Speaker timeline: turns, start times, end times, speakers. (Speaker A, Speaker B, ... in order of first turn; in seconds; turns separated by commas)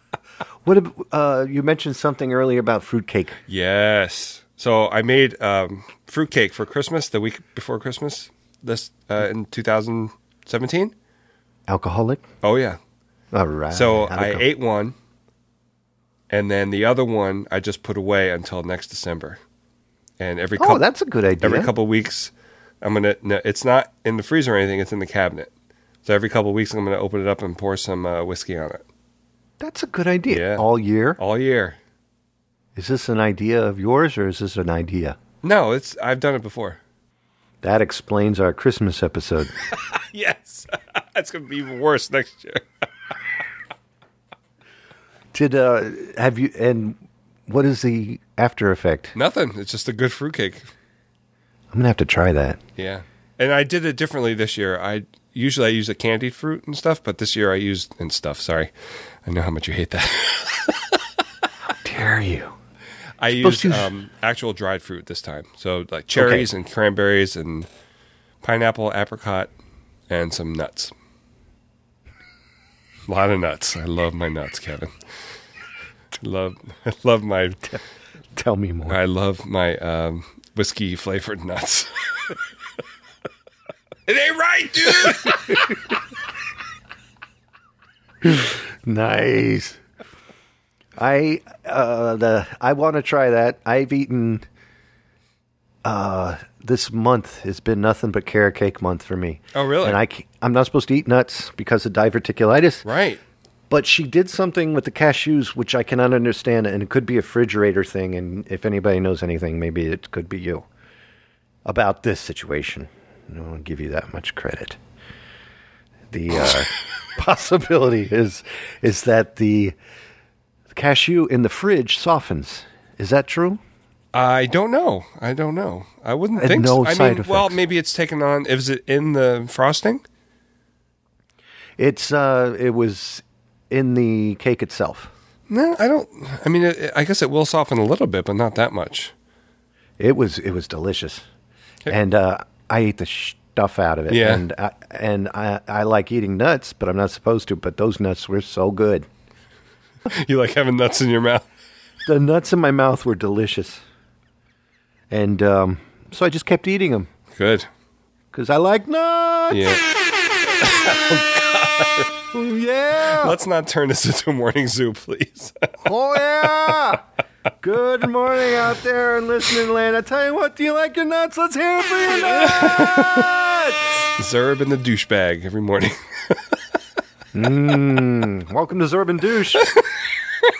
Speaker A: 0.6-3.4, Speaker B: 3.5-10.9, Speaker A: 11.7-12.2, Speaker B: 12.4-12.8, Speaker A: 13.3-14.4, Speaker B: 13.7-14.9, Speaker B: 16.3-19.4, Speaker B: 20.2-20.9, Speaker A: 20.6-21.7, Speaker B: 21.4-25.5, Speaker B: 26.0-28.8, Speaker A: 29.6-31.2, Speaker B: 30.3-30.6, Speaker B: 31.2-31.8, Speaker A: 32.8-35.2, Speaker B: 35.4-36.8, Speaker A: 37.6-39.5, Speaker B: 39.7-42.6, Speaker A: 45.3-49.1, Speaker B: 49.1-50.7, Speaker A: 51.7-52.6, Speaker B: 52.8-58.7, Speaker B: 59.2-61.0, Speaker A: 61.8-62.5, Speaker B: 63.2-67.7, Speaker A: 63.4-63.9, Speaker A: 66.1-66.5, Speaker B: 68.4-69.5, Speaker B: 70.1-70.9, Speaker B: 73.1-74.9, Speaker B: 76.2-77.6, Speaker A: 78.3-79.0, Speaker B: 78.9-82.3, Speaker B: 84.1-85.7, Speaker A: 88.2-89.8, Speaker A: 91.0-94.4, Speaker A: 95.8-102.8, Speaker B: 99.5-100.0, Speaker B: 102.8-103.2, Speaker A: 103.7-110.7, Speaker A: 111.6-114.8, Speaker A: 116.1-119.7, Speaker A: 120.7-123.6, Speaker B: 124.1-130.0, Speaker A: 126.4-127.6, Speaker A: 131.8-135.1, Speaker B: 135.5-139.1, Speaker A: 140.0-141.2, Speaker A: 141.9-149.1, Speaker B: 144.1-144.4, Speaker B: 150.1-151.4, Speaker A: 152.1-153.8, Speaker A: 155.1-157.1, Speaker B: 157.3-157.7, Speaker A: 158.3-159.7, Speaker B: 159.5-159.8, Speaker B: 160.6-162.1, Speaker A: 162.3-163.3, Speaker B: 163.1-165.5, Speaker A: 165.8-167.0, Speaker A: 167.6-173.8, Speaker B: 172.5-173.2, Speaker B: 174.2-176.4, Speaker A: 177.3-179.7